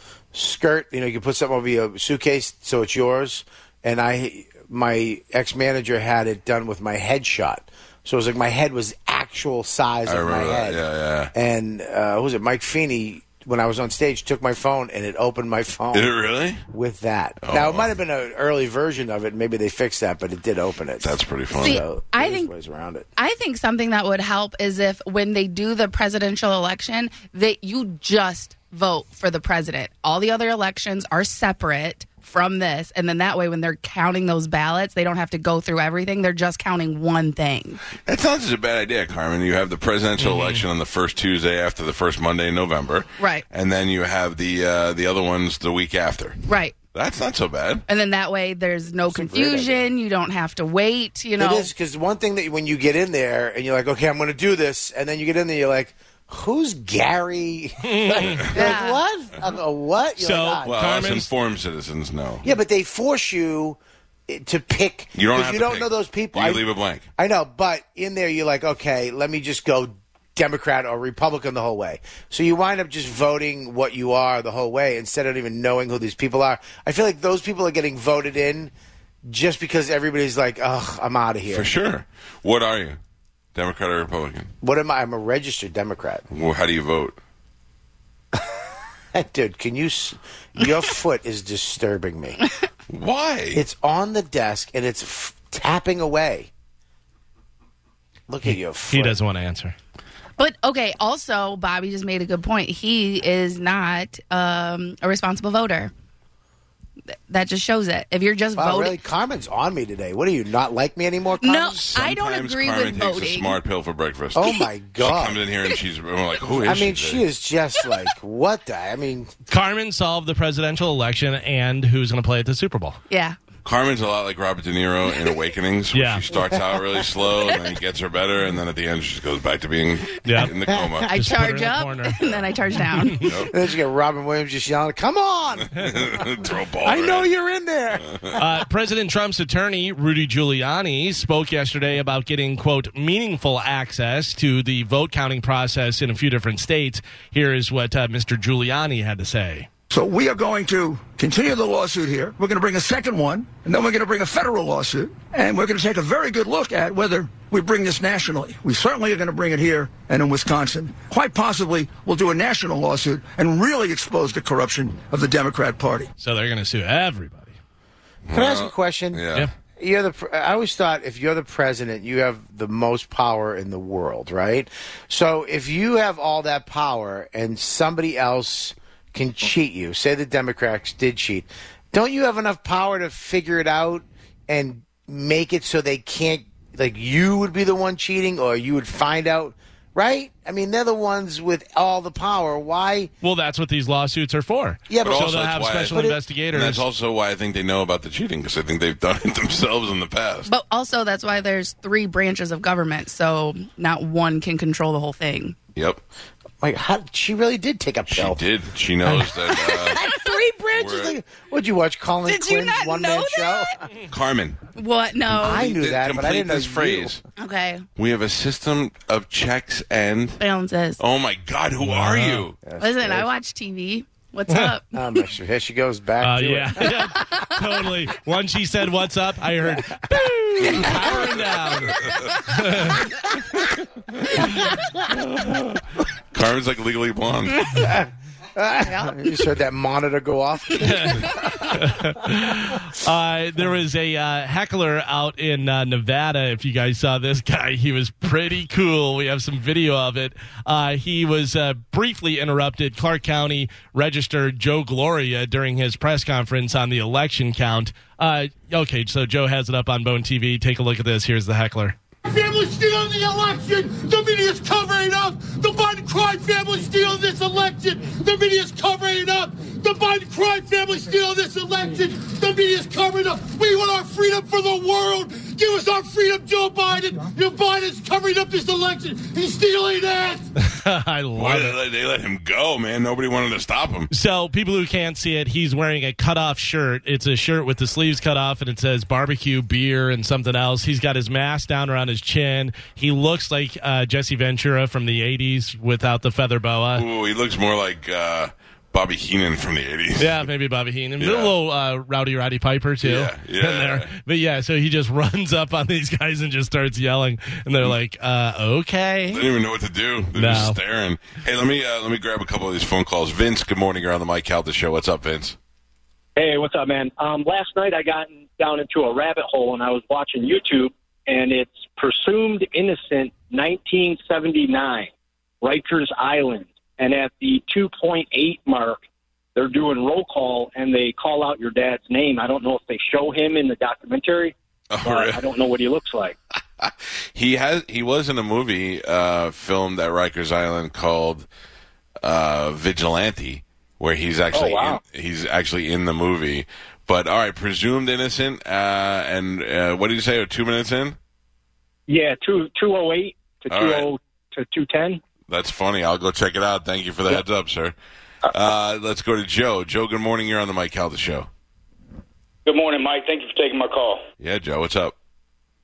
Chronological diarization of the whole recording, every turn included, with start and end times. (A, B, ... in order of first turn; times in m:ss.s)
0:00.3-0:10.8 A
0:10.1-0:11.3 B
0:11.3-0:16.1 A
0:15.9-0:16.6 B
0:16.7-0:23.1 A
0:17.4-0:17.9 B
0:21.0-0:21.8 B
0:21.6-0:22.5 C
0:23.2-0:37.8 C
0:38.0-0:46.4 B
0:40.2-0:40.6 D
0:43.2-0:43.4 C
0:46.5-0:46.8 C
0:46.9-0:47.8 B
0:47.9-0:51.7 C
0:49.1-0:49.9 A
0:51.4-1:00.7 A
0:57.8-0:58.5 D
0:58.5-0:59.0 C
1:00.2-1:01.3 D
1:00.6-1:02.4 B
1:02.4-1:06.6 A
1:05.2-1:07.0 B
1:07.2-1:18.7 A
1:19.3-1:21.7 A
1:21.5-1:23.0 B
1:23.6-1:24.5 B
1:24.6-1:26.2 A
1:26.3-1:27.2 B
1:29.1-1:32.4 A
1:32.9-1:33.6 B
1:33.5-1:36.5 A
1:38.3-1:39.2 A
1:38.4-1:39.8 D
1:40.4-1:45.9 C
1:47.3-1:49.0 C
1:48.6-1:51.8 A
1:51.4-1:53.6 C
1:51.8-1:57.2 B
1:54.3-1:55.4 A
1:56.6-1:59.3 A
1:59.5-2:03.0 D
2:03.1-2:03.4 C
2:03.6-2:11.2 B
2:05.9-2:06.2 D
2:10.2-2:10.5 D
2:11.0-2:13.5 C
2:11.1-2:13.3 D
2:13.2-2:13.5 B
2:13.5-2:16.3 A
2:15.8-2:17.3 B
2:16.8-2:18.4 A
2:18.4-2:29.7 D
2:29.9-2:46.1 E
2:46.2-2:47.6 D
2:48.3-2:49.5 B
2:48.3-2:49.2 A
2:49.8-3:13.1 A
3:13.2-3:16.8 D
3:14.9-3:15.3 A
3:15.0-3:20.5 B
3:15.9-3:16.2 A
3:20.5-3:25.6 C
3:25.8-3:26.0 B
3:26.6-3:28.4 A
3:28.1-3:30.0 B
3:29.5-3:33.8 A
3:30.8-3:31.2 B
3:32.3-3:33.8 C
3:34.1-3:34.6 B
3:34.8-3:35.7 C
3:35.3-3:37.2 A
3:35.4-3:37.2 B
3:37.4-3:37.8 C
3:38.0-3:40.4 B
3:40.4-3:41.0 C
3:41.0-3:42.6 B
3:41.8-3:42.4 D
3:42.6-3:43.3 A
3:42.8-3:45.2 C
3:44.9-3:47.0 A
3:46.2-3:53.0 D
3:54.6-3:55.8 B
3:56.3-3:57.8 B
3:57.7-4:01.7 A
3:58.8-3:59.2 C
4:00.8-4:22.0 D
4:22.3-4:40.5 F
4:40.6-4:41.8 D
4:41.4-4:44.1 B
4:44.1-4:57.0 D
4:57.0-5:00.5 B
5:00.2-5:09.4 D
5:01.2-5:01.5 B
5:03.0-5:04.1 B
5:09.3-5:15.6 B
5:10.4-5:10.8 D
5:16.4-5:25.1 G
5:25.6-5:29.0 G
5:29.6-5:36.4 G
5:34.9-5:35.4 B
5:36.8-5:41.5 B
5:42.2-5:51.2 B
5:44.5-5:45.0 H
5:52.1-5:55.2 G
5:53.7-5:54.1 B
5:55.5-5:58.0 B
5:58.5-6:01.5 B
6:02.7-6:04.2 H
6:04.4-6:05.1 B